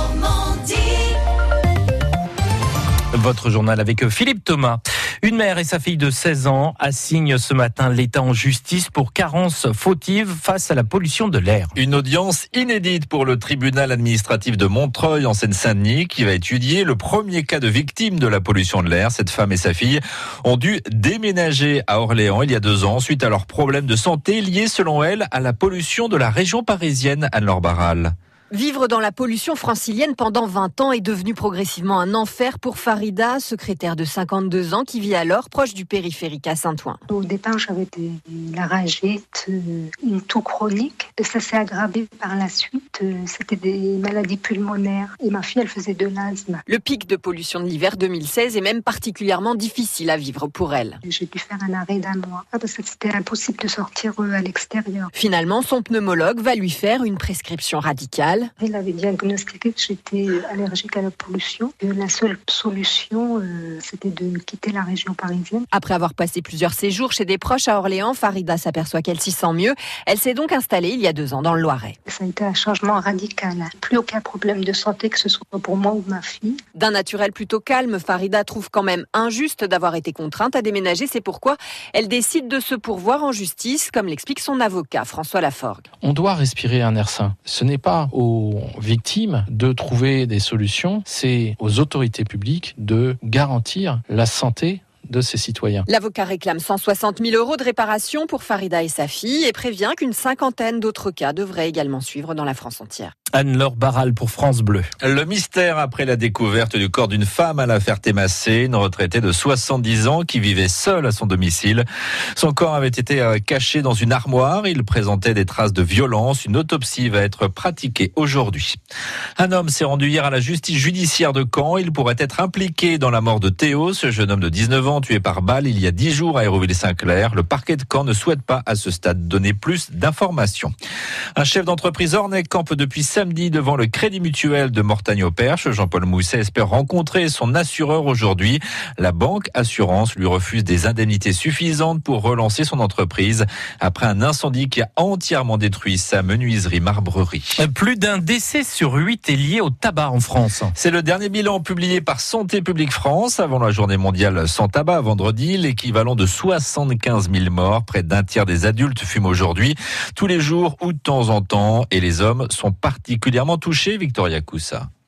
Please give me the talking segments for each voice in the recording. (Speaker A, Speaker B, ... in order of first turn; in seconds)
Speaker A: 3.1-11.8, 103.3-104.9, 147.6-150.7
Speaker B: 11.8-28.1, 105.0-111.8, 112.4-118.8, 119.4-130.7, 131.4-147.6, 150.8-164.9
Speaker C: 28.5-37.0, 46.7-51.0, 55.1-58.5, 65.7-72.0, 76.8-85.8, 95.8-103.1
Speaker D: 37.1-46.6, 51.0-55.1, 58.6-65.7, 72.1-76.6
Speaker E: 86.0-95.8